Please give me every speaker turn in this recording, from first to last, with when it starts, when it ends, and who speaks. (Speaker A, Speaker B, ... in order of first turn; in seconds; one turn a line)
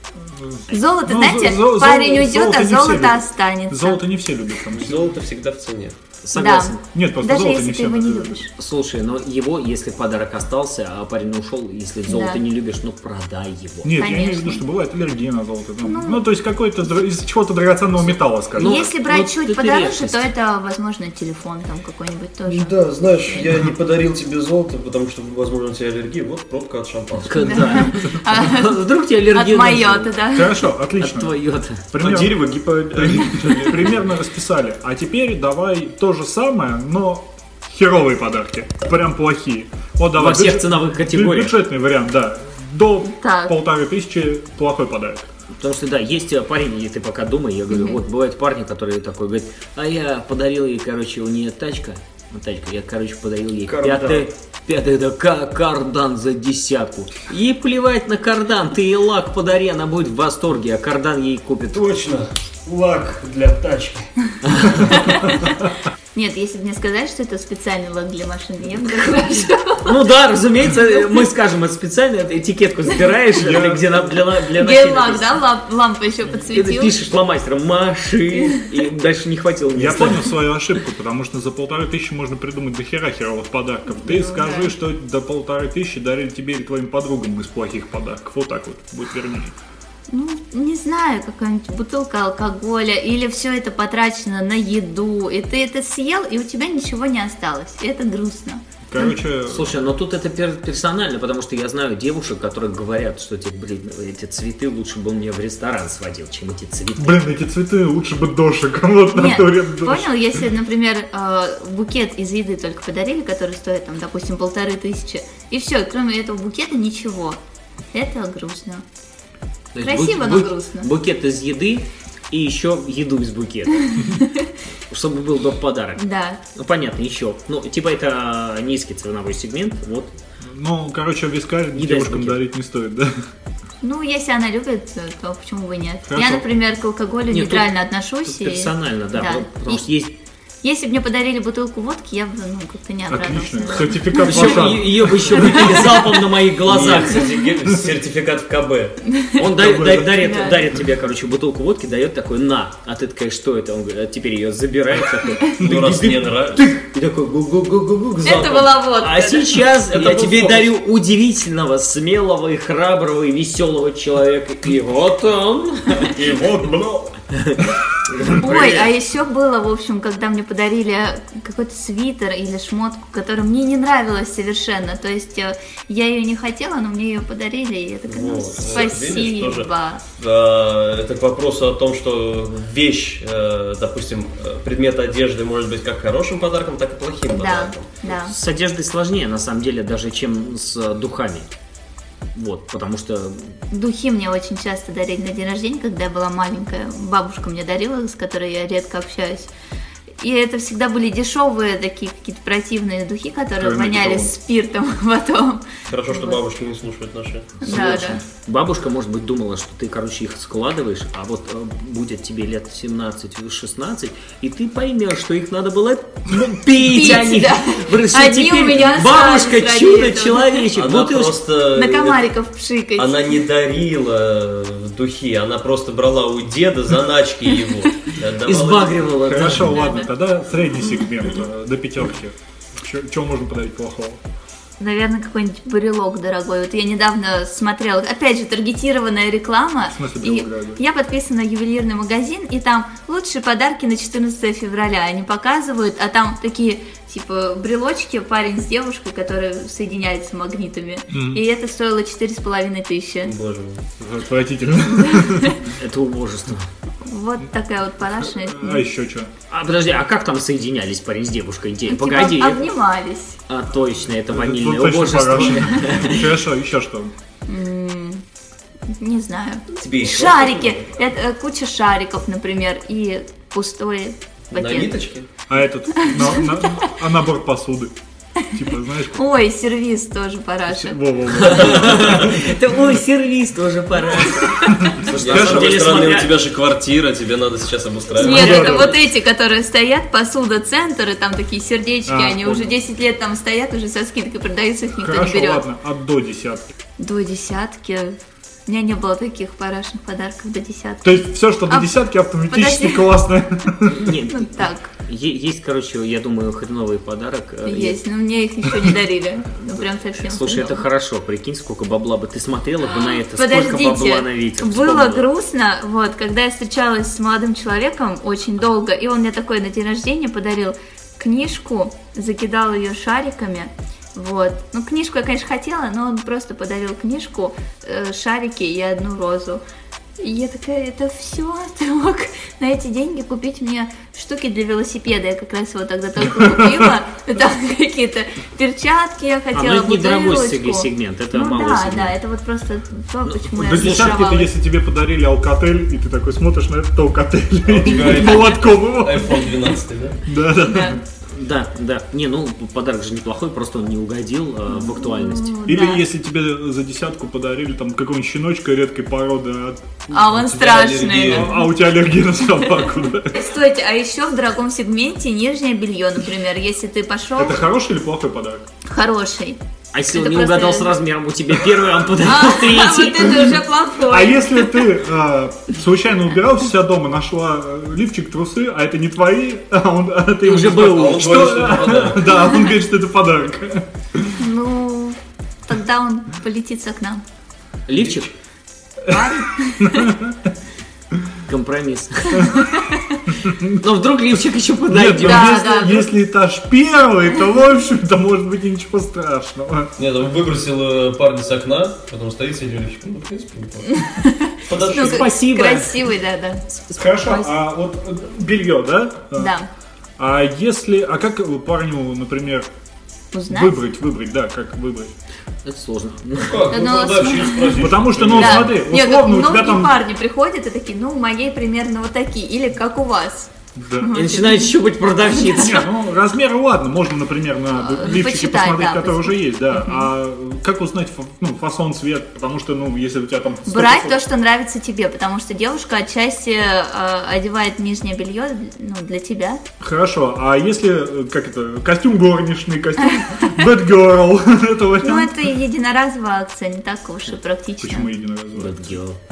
Speaker A: 0.2-5.0
Speaker B: 0.7-4.0
Speaker C: 4.7-6.0
Speaker D: 6.2-6.8
Speaker B: 6.3-8.5
Speaker A: 6.9-8.4
Speaker D: 8.6-14.0
Speaker B: 12.1-12.4
Speaker A: 13.8-18.8
Speaker B: 13.9-14.6
Speaker B: 15.8-16.2
Speaker D: 18.0-20.3
Speaker B: 18.6-22.7
Speaker C: 22.4-27.9
Speaker D: 27.2-30.1
Speaker B: 27.4-30.6
Speaker A: 30.3-45.3
Speaker D: 31.0-31.9
Speaker C: 32.0-34.0
Speaker D: 40.1-41.5
Speaker B: 43.0-43.6
Speaker D: 45.6-61.8
Speaker B: 47.7-48.0
Speaker C: 53.7-54.2
Speaker C: 61.7-64.1
Speaker D: 64.5-64.8
Speaker B: 64.9-65.5
Speaker B: 66.1-70.0
Speaker D: 69.8-75.4
Speaker B: 70.8-71.0
Speaker A: 73.3-74.0
Speaker B: 74.5-77.0
Speaker D: 76.5-80.4
Speaker A: 79.7-89.5
Speaker B: 83.9-84.7
Speaker B: 90.1-99.1
Speaker A: 98.9-99.8
Speaker D: 99.5-107.2
Speaker A: 107.0-110.1
Speaker B: 109.1-117.4
Speaker B: 117.9-118.8
Speaker D: 119.7-124.1
Speaker B: 119.8-120.9
Speaker B: 124.0-124.3
Speaker D: 124.9-130.1
Speaker B: 126.0-126.4
Speaker A: 130.5-133.2
Speaker D: 131.7-132.4
Speaker B: 133.8-139.8
Speaker A: 136.1-136.4
Speaker D: 137.3-137.7
Speaker D: 138.2-140.1
Speaker B: 140.6-144.7
Speaker A: 143.1-145.7
Speaker D: 144.2-147.3
Speaker C: 145.6-149.0
Speaker B: 149.1-149.5
Speaker D: 149.4-166.2
Speaker A: 149.6-150.1
Speaker B: 150.1-150.6
Speaker C: 155.5-156.8
Speaker C: 158.2-158.7
Speaker B: 158.2-159.6
Speaker C: 159.9-160.7
Speaker C: 166.1-167.1
Speaker D: 167.3-168.9
Speaker B: 168.4-180.0
Speaker C: 178.1-188.0
Speaker B: 187.3-188.3
Speaker D: 188.1-191.5
Speaker D: 192.3-193.6
Speaker B: 193.7-199.5
Speaker B: 200.2-206.4
Speaker A: 203.6-204.3
Speaker C: 205.9-208.1
Speaker B: 207.6-208.2
Speaker D: 207.7-221.3
Speaker A: 207.7-208.1
Speaker B: 216.7-220.7
Speaker C: 220.7-222.3
Speaker B: 221.7-223.4
Speaker C: 222.9-229.1
Speaker D: 228.4-229.8
Speaker A: 229.2-234.2
Speaker B: 229.6-230.1
Speaker B: 234.8-253.3
Speaker A: 239.9-240.8
Speaker A: 251.1-251.4
Speaker C: 253.2-253.8
Speaker A: 254.0-255.6
Speaker B: 254.9-255.6
Speaker D: 255.8-256.6
Speaker B: 257.0-258.8
Speaker A: 258.2-259.3
Speaker D: 259.5-262.7
Speaker B: 261.9-263.4
Speaker D: 263.5-266.3
Speaker A: 264.3-267.1
Speaker B: 267.5-268.2
Speaker B: 268.9-274.9
Speaker C: 269.8-270.9
Speaker C: 274.5-275.3
Speaker A: 275.5-277.9
Speaker B: 276.0-276.9
Speaker A: 278.5-279.2
Speaker B: 279.1-281.7
Speaker A: 280.7-282.5
Speaker D: 281.4-286.3
Speaker C: 282.0-282.2
Speaker B: 284.2-284.9
Speaker A: 284.7-286.1
Speaker C: 285.1-289.1
Speaker B: 288.1-295.6
Speaker A: 288.2-288.9
Speaker A: 292.1-292.7
Speaker A: 295.0-296.7
Speaker B: 297.0-301.9
Speaker A: 301.0-304.1
Speaker B: 302.5-303.2
Speaker D: 303.9-308.0
Speaker B: 304.3-304.9
Speaker B: 307.6-310.8
Speaker D: 309.6-315.2
Speaker B: 312.9-329.6
Speaker B: 330.2-344.5
Speaker A: 336.2-336.9
Speaker D: 339.5-342.1
Speaker D: 343.3-344.2
Speaker A: 343.6-349.7
Speaker C: 347.7-350.2
Speaker A: 350.2-351.0
Speaker B: 350.6-351.0
Speaker D: 351.3-355.5
Speaker B: 354.7-356.0
Speaker A: 355.6-360.2
Speaker B: 360.1-361.6
Speaker C: 360.3-361.5
Speaker A: 361.3-363.4
Speaker B: 363.3-367.6
Speaker A: 367.4-368.6
Speaker B: 368.9-371.0
Speaker D: 369.9-373.5
Speaker B: 372.1-374.9
Speaker A: 373.3-384.4
Speaker D: 380.4-381.4
Speaker C: 380.7-382.4
Speaker B: 384.4-387.2
Speaker D: 387.9-388.3
Speaker A: 389.0-390.4
Speaker B: 389.1-390.1
Speaker D: 391.5-392.5
Speaker B: 392.4-393.2
Speaker A: 393.4-393.8
Speaker D: 393.8-395.6
Speaker A: 394.9-399.9
Speaker B: 395.2-396.1
Speaker C: 400.0-404.0
Speaker B: 403.9-407.5
Speaker C: 404.7-405.3
Speaker D: 404.8-406.0
Speaker A: 406.9-409.5
Speaker B: 409.4-409.7
Speaker A: 410.2-412.7
Speaker B: 413.3-413.8
Speaker A: 413.5-415.1
Speaker D: 415.6-416.7
Speaker C: 416.4-418.7
Speaker B: 416.7-425.7
Speaker A: 417.7-420.0
Speaker A: 423.8-424.4
Speaker D: 424.1-425.8
Speaker A: 425.4-434.2
Speaker B: 427.7-430.1
Speaker B: 433.7-439.6
Speaker A: 439.8-445.5
Speaker B: 443.0-443.6
Speaker B: 445.0-448.1
Speaker A: 447.8-449.0
Speaker D: 448.6-449.2